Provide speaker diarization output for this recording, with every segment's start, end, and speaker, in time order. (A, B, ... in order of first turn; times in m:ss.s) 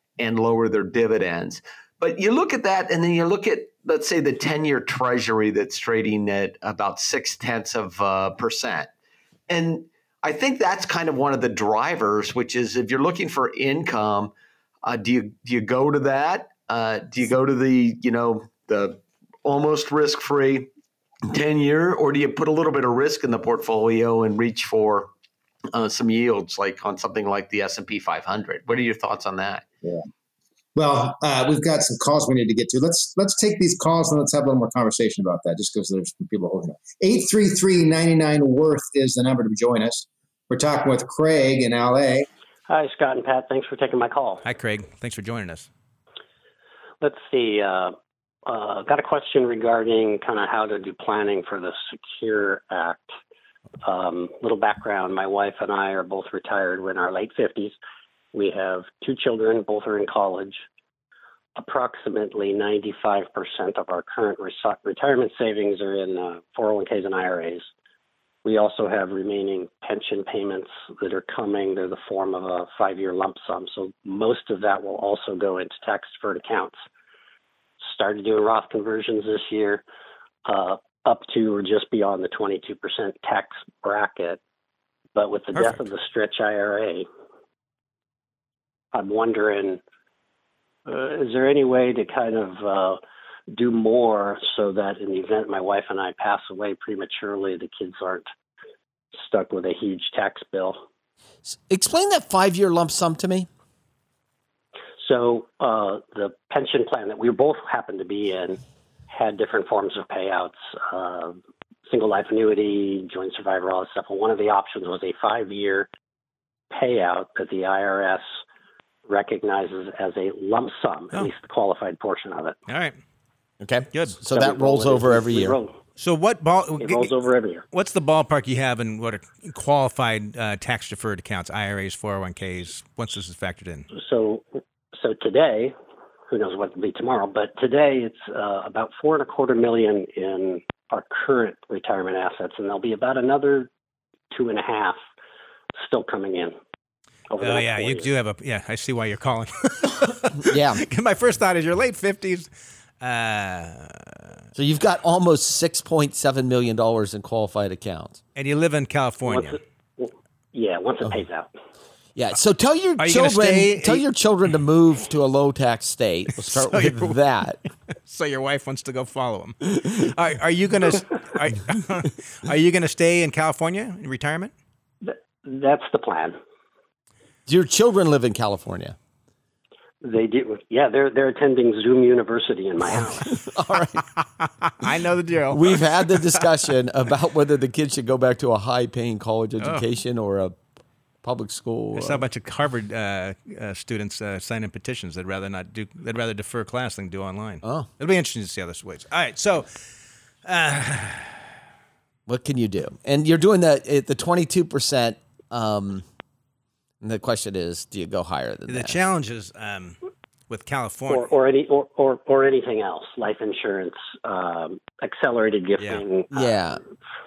0:00.2-0:08.9 A
0:09.5-0:20.7 A
0:21.3-0:25.1 A
0:25.7-0:29.6 A
0:30.8-0:42.3 B
0:42.7-0:44.4 C
0:44.4-0:45.7 D
0:47.0-0:53.0 C
0:53.8-0:57.8 C
0:58.3-1:00.6 C
1:01.6-1:07.7 C
1:08.4-1:16.8 C
1:17.8-1:19.8 C
1:20.4-1:24.4 C
1:25.2-1:27.1 C
1:25.5-1:25.8 D
1:28.9-1:29.8 C
1:30.8-1:33.0 C
1:33.5-1:38.3 C
1:39.1-1:40.8 C
1:41.4-1:43.5 E
1:45.0-1:55.9 C
1:56.7-1:58.4 C
1:59.0-2:02.6 C
2:02.7-2:03.0 D
2:03.6-2:05.6 E
2:04.3-2:05.8 C
2:06.0-2:07.1 D
2:06.8-2:07.6 C
2:07.7-2:13.8 D
2:13.9-2:15.7 C
2:16.3-2:23.7 C
2:24.3-2:25.0 C
2:25.8-2:26.6 C
2:27.3-2:28.1 C
2:27.4-2:34.3 D
2:30.4-2:30.8 E
2:34.6-2:38.2 E
2:38.3-2:39.6 D
2:39.3-2:41.5 C
2:42.2-2:47.6 E
2:43.0-2:44.0 D
2:46.4-2:47.2 D
2:48.0-2:54.5 D
2:55.0-2:56.4 C
2:57.4-2:59.0 E
3:00.0-3:03.3 C
3:03.3-3:04.1 E
3:04.4-3:06.5 D
3:05.5-3:10.6 E
3:09.6-3:09.8 D
3:11.2-3:12.2 E
3:11.9-3:19.7 D
3:17.6-3:17.9 E
3:20.4-3:21.5 D
3:22.2-3:26.0 E
3:27.0-3:29.0 E
3:28.7-3:30.0 D
3:30.5-3:31.3 D
3:31.1-3:36.6 C
3:36.3-3:36.8 E